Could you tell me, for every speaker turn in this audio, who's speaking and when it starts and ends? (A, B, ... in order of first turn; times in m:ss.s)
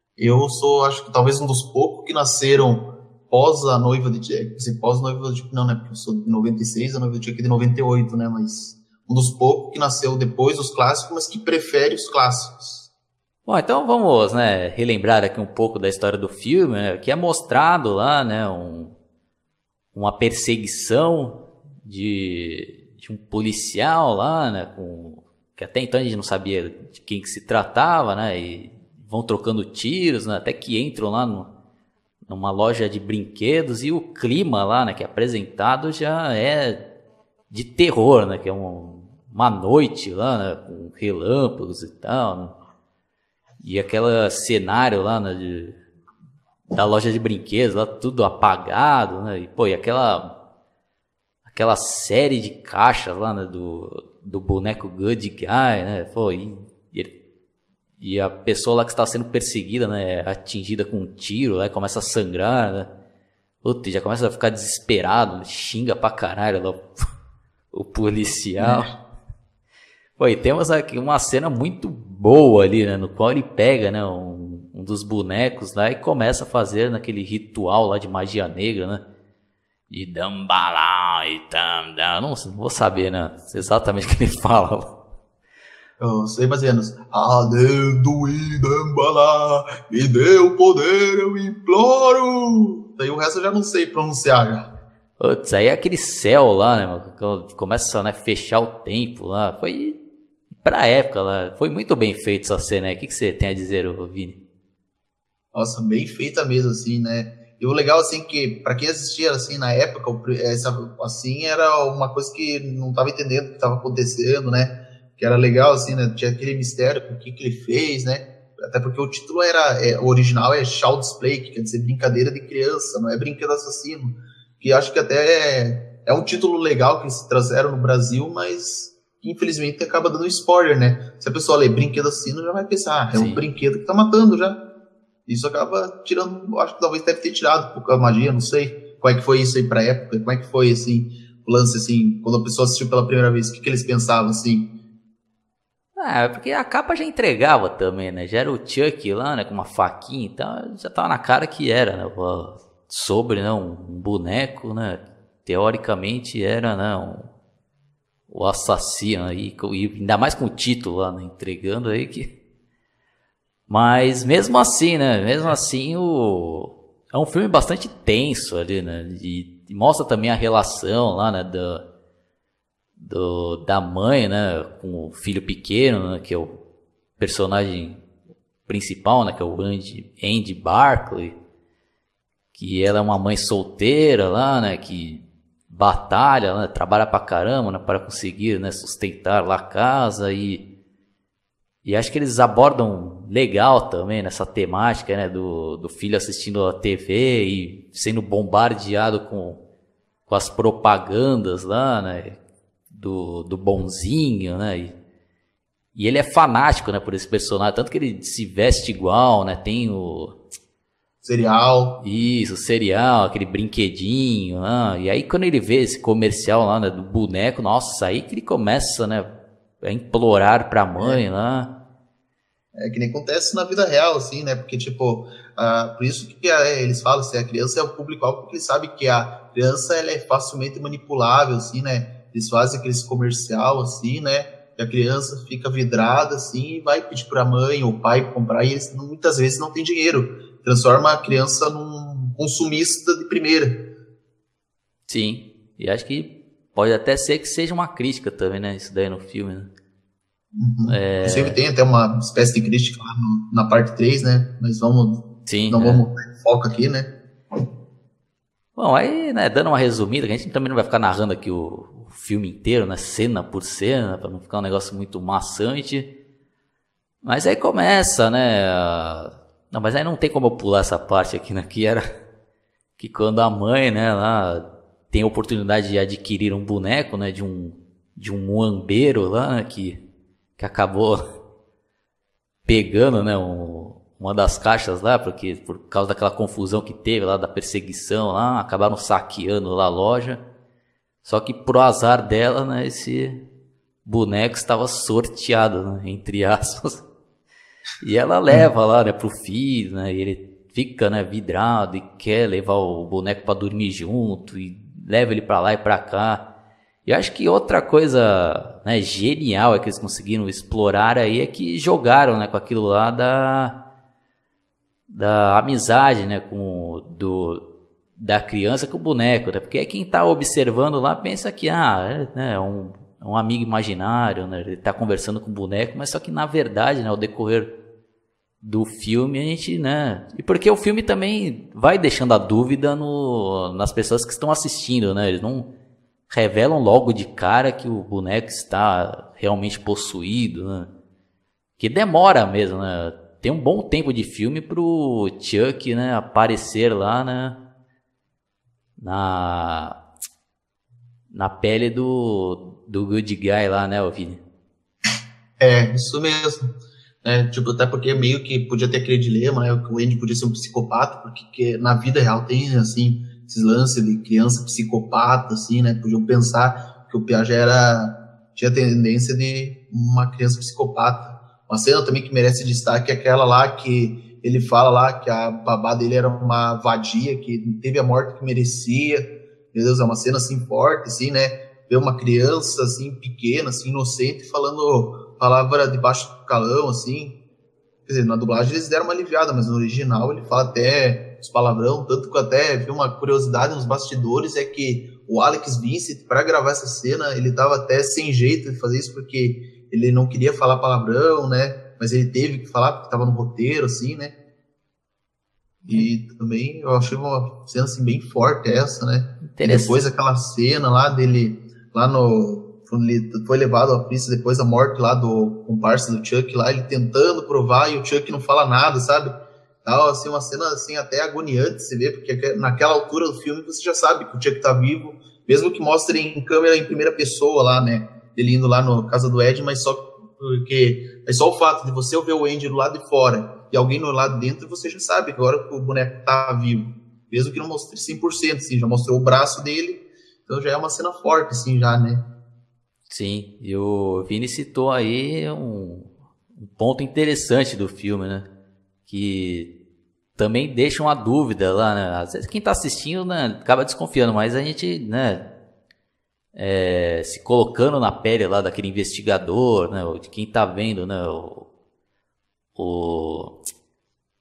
0:00.2-0:12.9 A
0:13.4-0:18.9 B
0:19.9-0:31.5 B
0:32.2-0:36.8 B
0:37.5-0:42.5 B
0:43.6-0:45.8 B
0:46.7-0:50.3 B
0:51.5-0:57.1 B
0:58.0-1:02.9 B
1:03.6-1:06.8 B
1:07.7-1:08.9 B
1:08.6-1:08.8 A
1:10.2-1:19.0 B
1:19.9-1:24.9 B
1:26.0-1:34.6 A
1:35.2-1:40.0 B
1:40.6-1:44.4 B
1:45.5-2:14.6 A
2:13.1-2:13.4 B
2:15.3-2:24.6 A
2:26.0-2:37.3 B
2:38.3-2:42.3 B
2:43.7-2:51.8 B
2:53.0-2:56.6 B
2:57.2-2:58.0 B
2:58.7-3:01.4 B
3:02.5-3:10.6 B
3:11.8-3:19.6 B
3:20.3-3:22.4 B
3:22.9-3:24.9 B
3:25.9-3:30.3 B
3:31.2-3:32.0 A
3:32.0-3:39.2 B
3:39.8-3:41.7 B
3:42.8-4:03.8 A
4:05.1-4:09.7 B
4:10.5-4:17.1 A
4:10.9-4:11.6 B
4:15.4-4:16.0 B
4:18.8-4:26.1 B
4:27.2-4:32.0 B
4:33.0-4:40.0 B
4:40.6-4:41.2 B
4:42.6-4:50.4 B
4:51.2-4:53.4 B
4:54.0-4:57.0 B
4:58.0-5:06.4 B
5:07.0-5:13.7 B
5:15.1-5:17.6 B
5:18.2-5:27.7 B
5:28.6-5:35.7 B
5:36.3-5:40.9 B
5:41.8-5:47.6 B
5:49.0-5:50.0 B
5:51.3-5:54.4 B
5:55.6-5:56.7 A
5:57.2-6:27.3 A
6:28.0-6:44.3 A
6:45.9-6:59.3 A
6:49.4-6:50.0 B
6:59.8-7:22.2 A
7:23.1-7:28.4 B
7:29.1-7:29.7 B
7:30.4-7:35.4 B
7:36.5-7:41.6 B
7:42.8-7:43.5 B